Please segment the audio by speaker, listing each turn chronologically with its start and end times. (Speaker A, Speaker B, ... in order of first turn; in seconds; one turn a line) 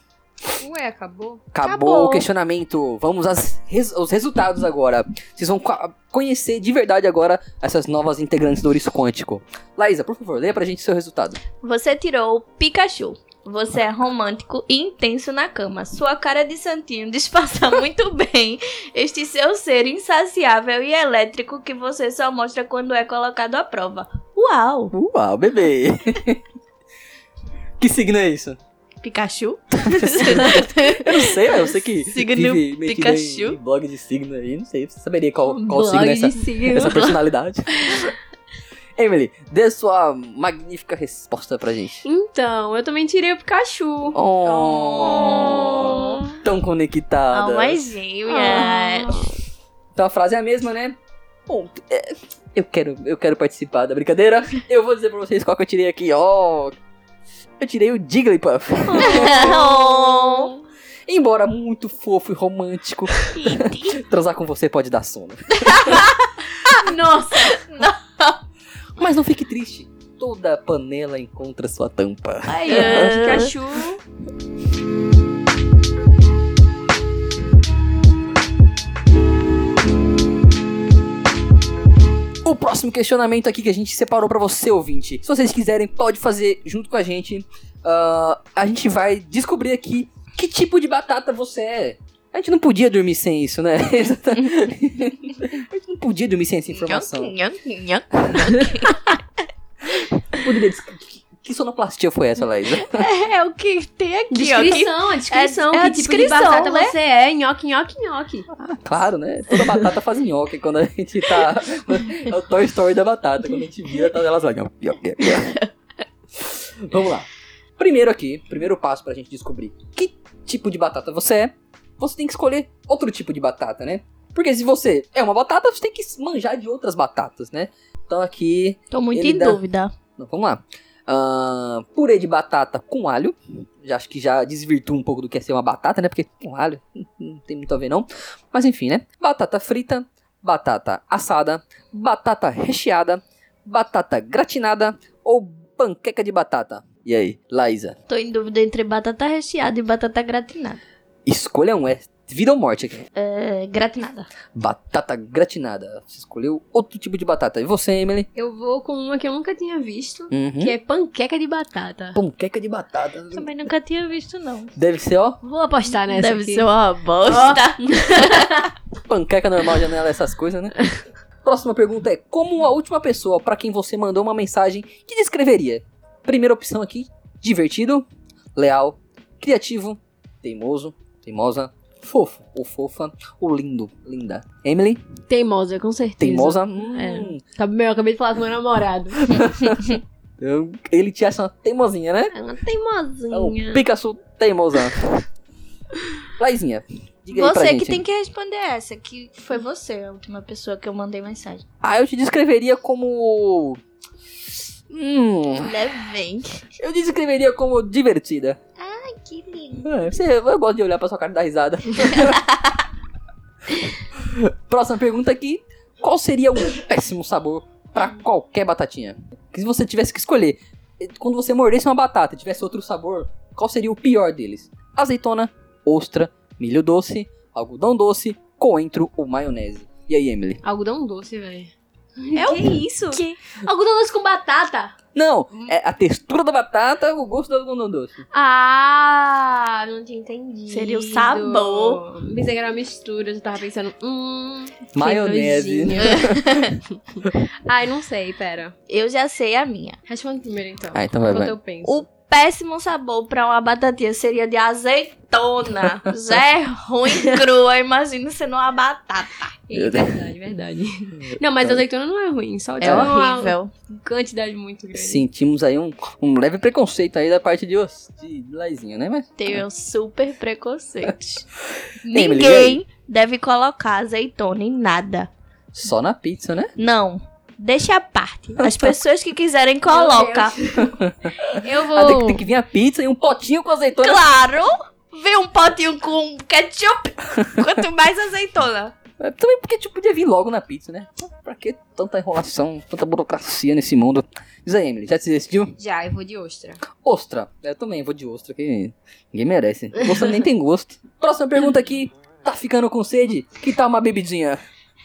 Speaker A: 0.6-1.4
Speaker B: 1.5-11.4
Speaker C: 1.6-2.2
Speaker C: 11.6-24.9
Speaker B: 24.9-26.4
Speaker B: 27.8-28.6
Speaker C: 29.0-33.6
Speaker B: 29.8-38.1
Speaker A: 35.5-37.1
Speaker B: 39.0-42.0
Speaker A: 42.0-44.2
Speaker B: 44.1-47.9
Speaker C: 44.4-46.3
Speaker A: 45.3-46.3
Speaker C: 47.3-49.2
Speaker A: 48.3-49.3
Speaker B: 49.9-51.0
Speaker B: 51.5-56.8
Speaker B: 57.6-59.7
Speaker C: 58.9-60.6
Speaker A: 58.9-59.8
Speaker B: 61.1-66.1
Speaker C: 63.2-64.0
Speaker C: 65.8-66.1
Speaker A: 66.7-67.9
Speaker C: 67.5-68.3
Speaker B: 69.0-73.5
Speaker C: 72.5-73.5
Speaker A: 72.6-74.0
Speaker B: 82.4-97.3
Speaker C: 96.7-99.2
Speaker B: 100.3-103.0
Speaker C: 102.9-106.9
Speaker A: 104.3-108.5
Speaker B: 108.5-115.6
Speaker B: 116.4-117.3
Speaker B: 117.8-129.6
Speaker C: 128.9-129.9
Speaker B: 130.2-148.0
Speaker C: 148.1-150.8
Speaker B: 151.2-153.1
Speaker C: 153.2-154.3
Speaker B: 154.5-158.3
Speaker A: 158.3-162.2
Speaker B: 160.3-160.8
Speaker B: 162.1-163.5
Speaker C: 163.3-164.7
Speaker B: 164.8-165.4
Speaker A: 165.4-166.7
Speaker C: 166.0-168.7
Speaker A: 167.2-168.7
Speaker B: 169.1-170.9
Speaker B: 171.4-185.0
Speaker A: 185.3-189.4
Speaker B: 186.2-187.4
Speaker B: 189.2-192.3
Speaker A: 192.3-193.8
Speaker B: 193.3-195.2
Speaker B: 196.4-198.0
Speaker C: 197.3-201.6
Speaker B: 201.8-203.8
Speaker B: 204.9-205.7
Speaker C: 205.6-206.6
Speaker B: 206.8-208.6
Speaker C: 208.8-209.9
Speaker B: 209.8-212.4
Speaker B: 214.2-230.6
Speaker A: 230.6-234.9
Speaker C: 232.3-233.4
Speaker B: 235.1-238.2
Speaker A: 238.3-246.3
Speaker C: 240.7-242.0
Speaker B: 244.9-246.6
Speaker C: 246.4-246.7
Speaker A: 247.1-248.7
Speaker C: 248.9-250.0
Speaker A: 250.1-252.1
Speaker B: 250.9-251.6
Speaker C: 251.8-259.6
Speaker A: 259.7-265.2
Speaker B: 259.7-260.1
Speaker B: 261.3-261.8
Speaker C: 262.8-263.7
Speaker B: 262.8-263.1
Speaker B: 264.9-269.6
Speaker C: 269.4-271.4
Speaker C: 272.1-275.3
Speaker B: 272.1-272.8
Speaker B: 275.7-276.7
Speaker C: 276.8-280.6
Speaker B: 278.6-278.9
Speaker A: 279.9-280.9
Speaker B: 280.8-284.2
Speaker A: 281.5-282.4
Speaker C: 284.0-288.9
Speaker B: 289.2-295.7
Speaker A: 295.8-296.8
Speaker B: 297.0-304.6